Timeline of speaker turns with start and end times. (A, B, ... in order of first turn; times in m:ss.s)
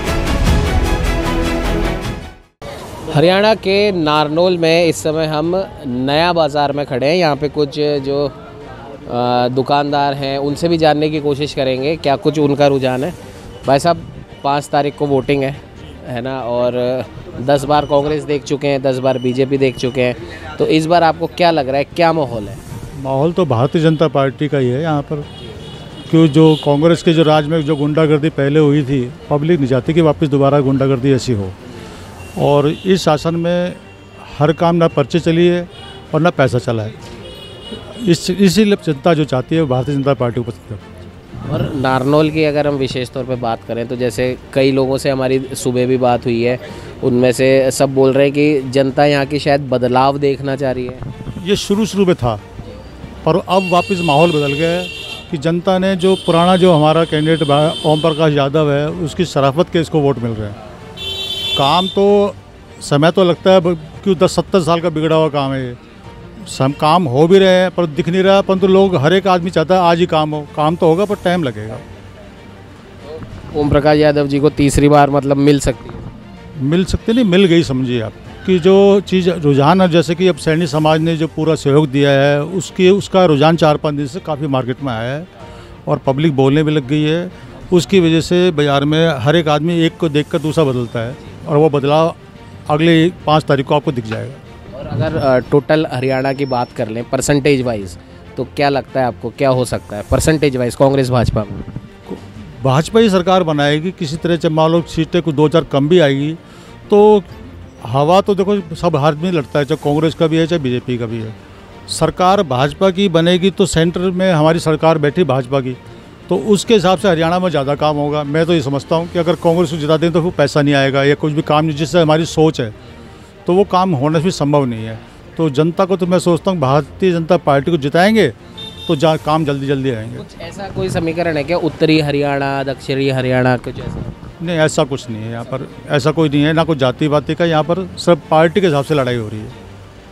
0:03.1-0:08.3 A
0:09.0-0:22.6 A
0:23.0-0:25.3 B
0:26.1-0:31.6 B
0:32.4-0:37.0 B
0:37.7-0:40.8 B
0:41.4-0:51.1 A
0:51.4-0:52.4 B
0:53.2-1:00.6 B
1:01.6-1:05.8 B
1:06.4-1:11.8 B
1:13.4-1:16.1 A
1:16.6-1:25.3 B
1:25.9-1:34.4 B
1:34.7-1:41.7 A
1:42.1-1:47.3 B
1:47.8-1:51.4 B
1:51.9-2:02.8 B
2:03.5-2:10.2 B
2:10.2-2:14.2 A
2:14.4-2:19.6 B